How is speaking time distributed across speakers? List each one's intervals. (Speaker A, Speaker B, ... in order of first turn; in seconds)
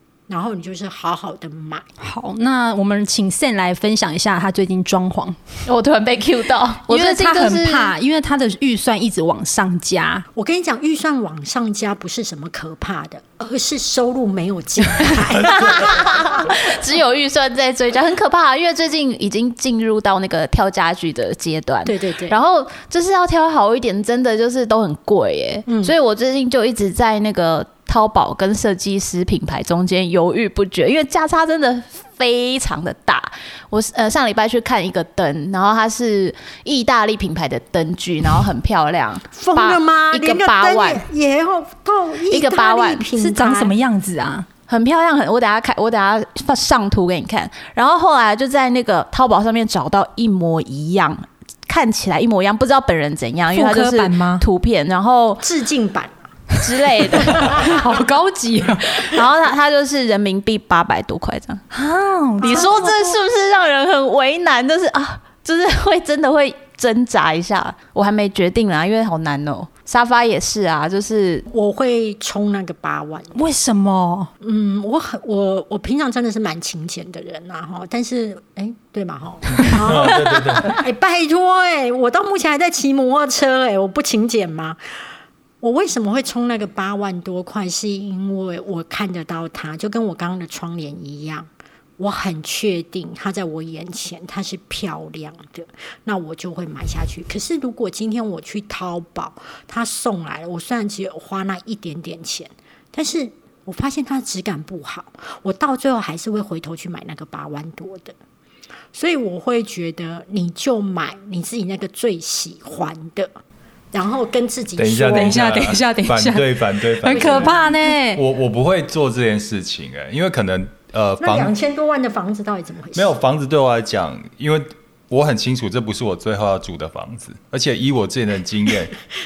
Speaker A: 0.3-1.9, 10.3-16.0, 21.9-22.4, 25.7-26.0, 39.3-43.8, 55.4-56.3, 62.4-62.8, 71.5-73.3, 74.4-84.8, 85.6-108.1, 108.9-113.3, 113.9-115.6, 117.1-117.8, 121.2-123.2
Speaker B: 2.0-5.4, 6.9-10.2, 43.1-44.5, 53.5-54.5, 57.3-59.1, 61.7-63.2, 73.3-74.3, 115.1-118.2
Speaker C: 5.7-8.0, 15.4-41.0, 42.3-43.1, 44.7-55.5, 56.6-57.5, 59.0-61.6, 62.4-71.5
Speaker D: 79.7-80.7, 114.8-117.6, 118.1-121.5, 123.0-128.9